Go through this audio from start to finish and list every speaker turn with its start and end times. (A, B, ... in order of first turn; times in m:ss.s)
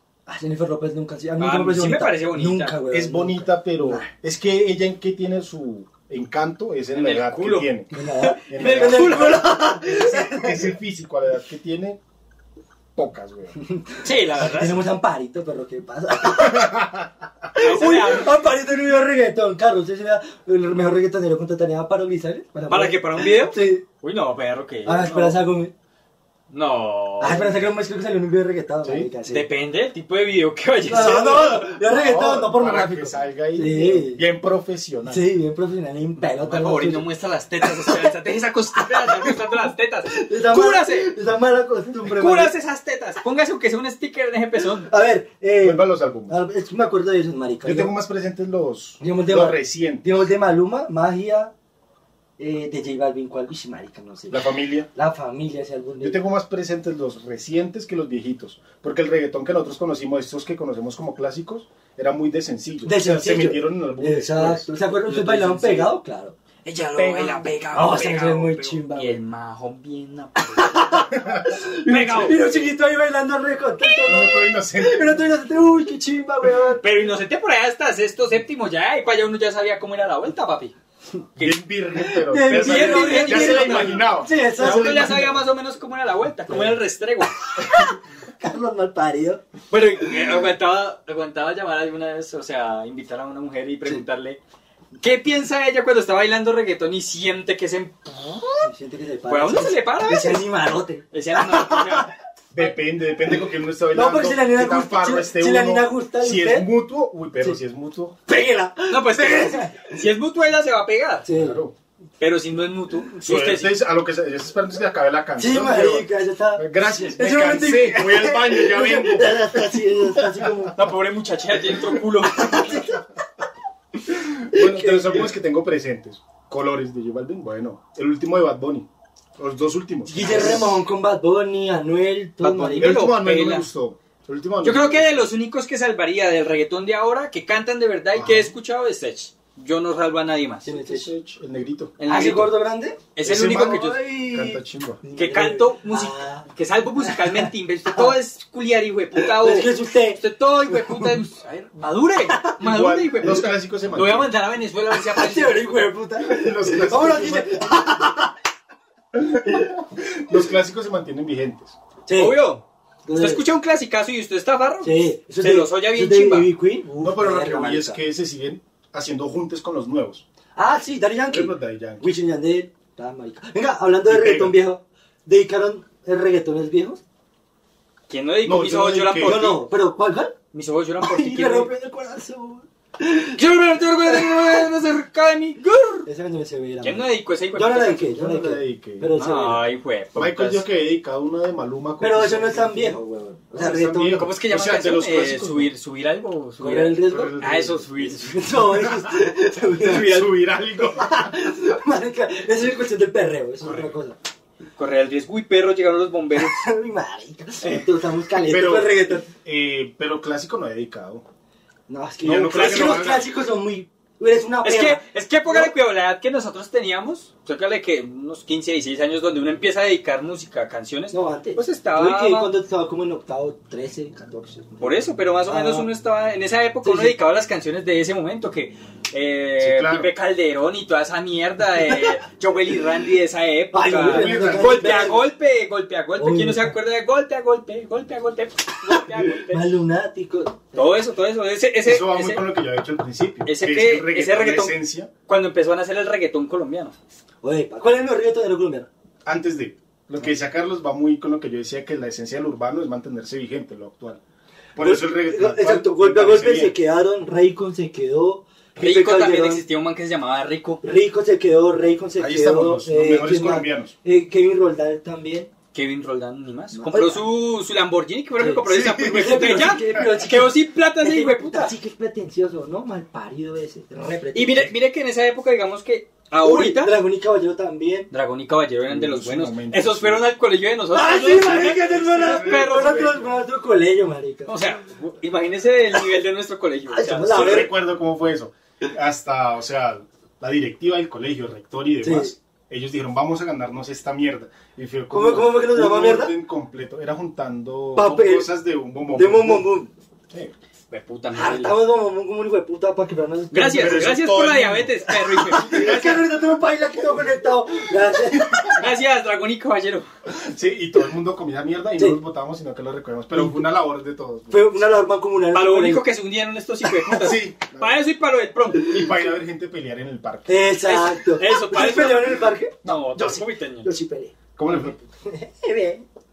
0:00.3-0:04.1 A
0:01.4-0:02.8 B
0:02.9-0:07.9 C
0:06.9-0:09.5 B
0:07.9-0:10.7 A
0:08.4-0:12.0 C
0:12.9-0:13.5 C
0:13.6-0:16.9 A
0:14.0-0:14.9 B
0:16.2-0:17.0 C
0:17.5-0:23.8 A
0:17.6-0:18.4 B
0:22.7-0:25.4 B
0:24.8-0:25.7 A
0:26.5-0:27.7 B
0:27.2-0:29.5 A
0:28.8-0:29.1 C
0:29.2-0:31.7 B
0:30.8-0:34.2 A
0:31.8-0:35.3 C
0:35.1-0:37.0 A
0:36.2-0:41.1 B
0:37.6-0:38.1 A
0:38.8-0:42.5 A
0:42.0-0:44.9 B
0:44.8-0:47.9 A
0:45.6-0:46.4 C
0:47.6-0:50.0 C
0:49.0-0:51.5 A
0:52.4-0:56.2 A
0:54.3-0:54.9 C
0:56.0-1:04.7 C
1:02.8-1:06.4 A
1:05.0-1:05.9 B
1:06.6-1:11.0 B
1:07.0-1:09.2 A
1:10.4-1:17.0 A
1:11.1-1:11.6 C
1:11.7-1:12.6 B
1:14.0-1:15.3 C
1:16.8-1:20.7 B
1:21.4-1:25.4 C
1:22.0-1:25.4 A
1:22.4-1:27.4 B
1:26.5-1:26.8 A
1:27.6-1:29.4 A
1:29.7-1:34.4 B
1:35.0-1:38.7 B
1:38.6-1:42.1 A
1:39.3-1:40.4 B
1:41.1-1:42.1 B
1:42.5-1:48.2 C
1:43.9-1:46.7 A
1:48.3-1:50.0 A
1:48.9-1:51.2 B
1:51.2-1:51.6 A
1:51.3-1:51.7 C
1:52.2-1:53.8 B
1:53.2-2:00.5 C
1:55.4-2:00.8 A
2:00.7-2:02.9 B
2:02.3-2:03.0 A
2:04.1-2:10.8 C
2:04.5-2:05.3 A
2:10.1-2:13.0 A
2:10.2-2:10.5 B
2:12.4-2:13.7 B
2:12.8-2:15.3 C
2:14.6-2:20.7 B
2:18.1-2:18.5 C
2:20.6-2:21.1 A
2:20.7-2:22.0 C
2:22.0-2:22.6 B
2:22.0-2:26.5 A
2:23.1-2:24.0 B
2:23.2-2:25.0 C
2:25.1-2:35.7 B
2:27.0-2:28.2 A
2:29.2-2:31.2 A
2:32.3-2:32.6 A
2:32.6-2:34.3 C
2:34.9-2:38.3 A
2:36.2-2:38.0 C
2:39.1-2:41.8 C
2:42.0-2:42.4 A
2:42.1-2:46.5 B
2:43.0-2:43.4 A
2:44.8-2:48.0 A
2:47.0-2:50.2 C
2:50.6-2:57.0 A
2:51.3-2:52.1 C
2:54.0-2:54.6 C
2:58.1-2:59.6 B
2:58.4-2:59.4 C
2:59.2-3:00.3 A
3:00.5-3:01.7 B
3:01.0-3:03.4 A
3:03.4-3:06.1 B
3:04.0-3:04.7 A
3:06.0-3:09.6 A
3:06.8-3:08.1 B
3:08.1-3:09.1 C
3:09.1-3:10.6 B
3:10.1-3:13.0 C
3:12.0-3:14.2 A
3:13.5-3:15.7 C
3:14.1-3:18.4 B
3:16.6-3:17.4 A
3:17.1-3:19.1 C
3:18.0-3:20.2 A
3:19.8-3:20.3 B
3:19.9-3:21.3 C
3:20.8-3:24.2 A
3:24.8-3:26.6 B
3:26.4-3:29.3 A
3:28.4-3:31.2 C
3:31.9-3:35.7 A
3:32.2-3:33.3 C
3:32.5-3:33.2 B
3:34.6-3:42.5 B
3:41.1-3:45.9 A
3:44.8-3:59.7 B
3:46.8-3:47.1 A
3:49.6-3:50.1 C
3:53.7-3:55.3 A
3:54.0-3:55.1 C
3:56.2-3:56.7 A
3:58.9-4:01.0 A
4:00.7-4:02.4 B
4:01.8-4:05.1 C
4:03.4-4:04.8 B
4:05.3-4:06.9 B
4:07.4-4:08.9 A
4:09.2-4:14.2 C
4:14.8-4:16.8 C
4:14.8-4:19.6 A
4:18.8-4:20.8 B
4:20.8-4:25.5 A
4:22.2-4:23.9 C
4:25.7-4:31.7 B
4:26.7-4:27.3 A
4:28.4-4:34.7 A
4:28.7-4:30.0 C
4:34.3-4:37.0 B
4:36.4-4:38.1 A
4:38.1-4:43.2 B
4:38.9-4:40.3 C
4:40.9-4:44.7 A
4:41.5-4:43.3 C
4:44.5-4:47.5 B
4:46.9-4:47.7 A
4:47.3-4:59.7 C
4:52.0-4:52.3 A
4:55.1-4:56.3 A
4:57.9-4:58.5 A
4:59.1-4:59.9 A
5:00.9-5:01.8 B
5:01.3-5:04.2 A
5:03.5-5:06.2 B
5:03.7-5:05.0 C
5:05.1-5:08.8 A
5:08.4-5:08.8 C
5:08.7-5:10.1 B
5:10.3-5:14.9 C
5:13.3-5:13.6 A
5:14.5-5:16.0 A
5:15.5-5:19.1 B
5:17.1-5:18.0 C
5:18.8-5:20.6 C
5:20.5-5:24.3 A
5:20.8-5:23.9 B
5:24.6-5:25.0 C
5:25.2-5:26.0 A